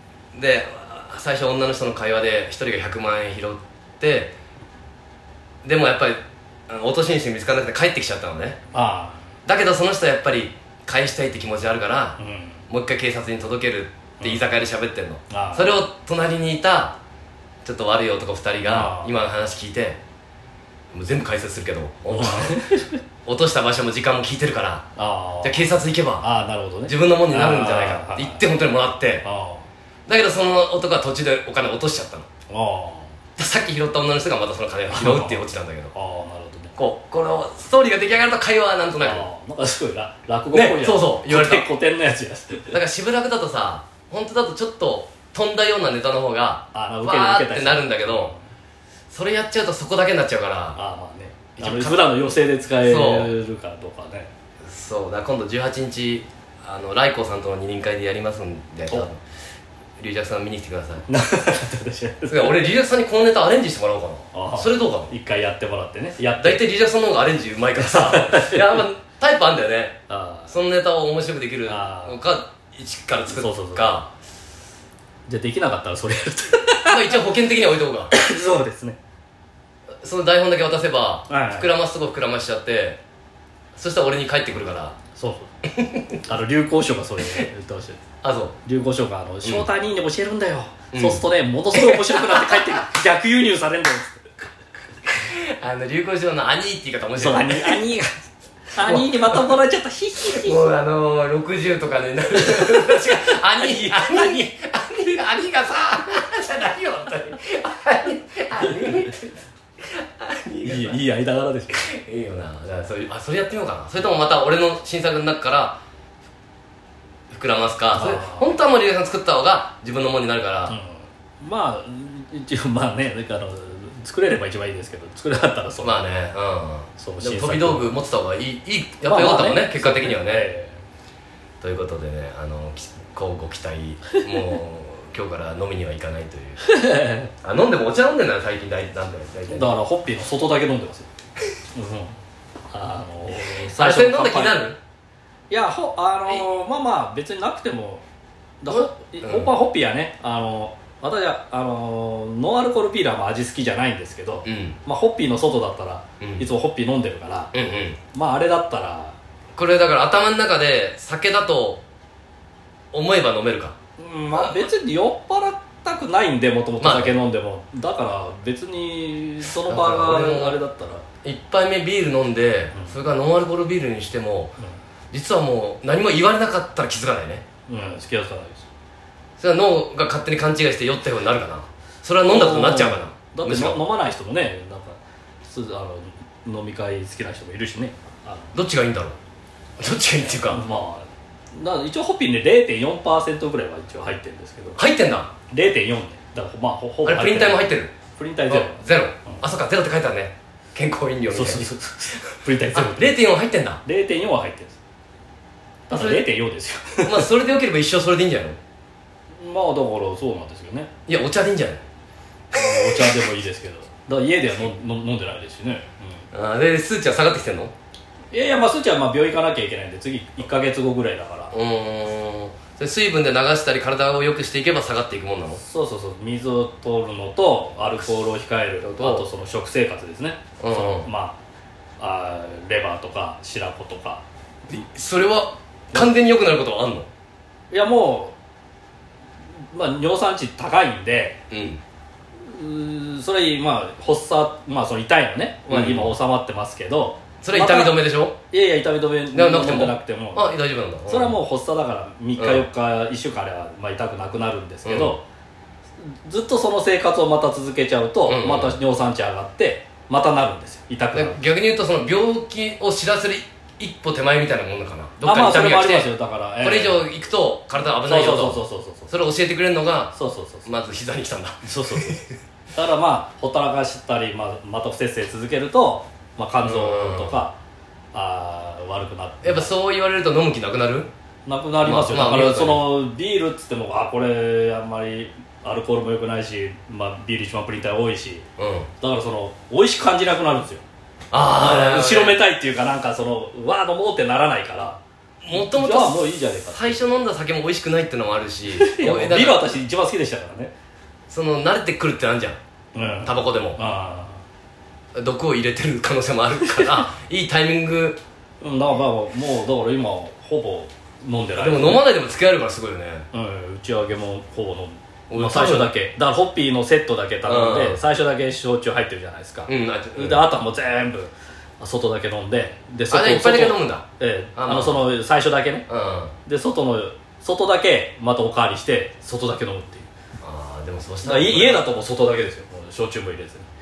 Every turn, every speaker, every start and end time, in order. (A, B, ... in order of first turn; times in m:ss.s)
0:00.3-0:04.3 A
0:05.6-0:08.6 A
0:08.7-0:09.2 B
0:09.4-0:12.2 A
0:12.2-0:12.6 B
0:12.7-0:17.0 A
0:14.2-0:14.5 B
0:15.3-0:15.7 B
0:17.6-0:20.0 A
0:18.6-0:19.1 B
0:20.9-0:22.6 A
0:22.1-0:23.0 B
0:23.2-0:24.9 A
0:25.0-0:25.6 B
0:25.4-0:26.3 A
0:26.2-0:28.5 B
0:26.8-0:29.3 A
0:29.2-0:29.7 B
0:30.1-0:32.3 A
0:32.5-0:33.1 B
0:33.4-0:35.9 A
0:34.9-0:36.7 B
0:36.8-0:39.3 A
0:39.0-0:42.8 B
0:40.5-0:41.7 A
0:42.7-0:48.3 A
0:46.7-0:48.4 B
0:49.1-0:50.8 A
0:50.7-0:54.3 B
0:51.6-0:53.3 A
0:54.6-0:59.2 A
1:00.0-1:01.1 A
1:01.1-1:02.6 B
1:02.3-1:05.1 A
1:04.3-1:06.6 B
1:06.3-1:14.1 A
1:07.8-1:08.8 B
1:10.1-1:10.6 B
1:11.6-1:12.2 B
1:13.3-1:14.1 B
1:15.3-1:17.2 B
1:16.8-1:18.1 A
1:18.1-1:19.0 B
1:20.0-1:23.0 A
1:21.3-1:21.7 B
1:23.7-1:25.0 A
1:25.1-1:25.5 B
1:25.6-1:26.2 A
1:26.3-1:28.0 B
1:28.2-1:28.6 A
1:28.6-1:34.2 B
1:30.9-1:32.8 A
1:35.1-1:37.8 A
1:37.1-1:40.8 B
1:38.8-1:39.5 A
1:40.2-1:51.0 A
1:42.4-1:44.5 B
1:48.6-1:49.1 B
1:50.6-1:51.8 B
1:51.7-1:55.8 A
1:57.3-2:00.8 A
1:57.9-1:58.5 B
2:00.7-2:06.0 B
2:05.8-2:10.5 A
2:07.0-2:07.9 B
2:09.0-2:10.8 B
2:11.6-2:16.7 A
2:16.6-2:17.3 B
2:17.4-2:19.7 A
2:19.5-2:21.1 B
2:21.7-2:22.1 B
2:22.7-2:24.6 B
2:23.3-2:24.8 A
2:25.5-2:28.0 B
2:28.6-2:37.5 B
2:28.7-2:29.5 A
2:34.4-2:34.8 A
2:36.2-2:36.4 A
2:37.5-2:38.0 A
2:38.1-2:39.2 B
2:39.6-2:41.8 A
2:42.9-2:43.7 A
2:44.0-2:51.0 B
2:44.3-2:44.7 A
2:46.8-2:47.2 A
2:49.6-2:50.6 A
2:51.2-2:54.5 A
2:55.1-2:57.4 A
2:57.7-2:58.6 B
2:59.4-3:03.8 A
3:02.2-3:08.6 B
3:08.5-3:09.2 A
3:09.8-3:10.6 A
3:10.3-3:14.8 B
3:14.7-3:15.3 A
3:15.5-3:19.4 B
3:17.0-3:18.0 A
3:18.5-3:23.8 A
3:21.3-3:23.2 B
3:23.8-3:24.8 B
3:25.9-3:27.3 B
3:25.9-3:26.3 A
3:27.0-3:28.6 A
3:29.4-3:30.9 B
3:31.1-3:31.8 A
3:32.5-3:33.1 A
3:32.5-3:36.2 B
3:36.3-3:37.7 A
3:38.3-3:41.5 B
3:41.5-3:45.6 A
3:45.6-3:51.4 B
3:48.8-3:49.2 A
3:50.6-3:51.1 A
3:52.0-3:54.2 B
3:54.7-3:57.1 A
3:57.7-3:58.3 B
3:59.7-4:01.4 B
4:01.5-4:01.8 A
4:02.5-4:08.0 B
4:05.7-4:06.1 A
4:07.4-4:08.4 A
4:08.5-4:10.5 B
4:09.3-4:11.4 A
4:11.0-4:15.2 B
4:12.4-4:12.6 A
4:14.8-4:15.2 A
4:16.0-4:21.4 B
4:18.2-4:18.8 A
4:21.1-4:32.3 A
4:25.2-4:27.1 B
4:27.9-4:29.1 B
4:30.1-4:30.7 B
4:31.6-4:32.2 B
4:32.7-4:37.6 B
4:36.6-4:37.4 A
4:38.1-4:39.7 B
4:39.4-4:41.1 A
4:41.4-4:48.4 B
4:41.8-4:43.0 A
4:48.6-4:48.9 A
4:49.0-4:50.8 B
4:51.3-4:52.4 A
4:51.5-4:55.0 B
4:55.4-4:59.7 A
4:55.5-4:57.0 B
4:58.7-5:00.7 B
5:01.3-5:02.6 A
5:02.9-5:04.4 B
5:03.2-5:03.8 A
5:05.1-5:08.2 A
5:08.6-5:12.0 B
5:11.6-5:13.3 A
5:13.3-5:25.8 B
5:15.3-5:15.9 A
5:17.4-5:18.0 A
5:19.6-5:20.5 A
5:23.1-5:25.0 A
5:25.9-5:26.3 A
5:26.5-5:30.1 B
5:30.4-5:31.8 A
5:31.2-5:33.6 B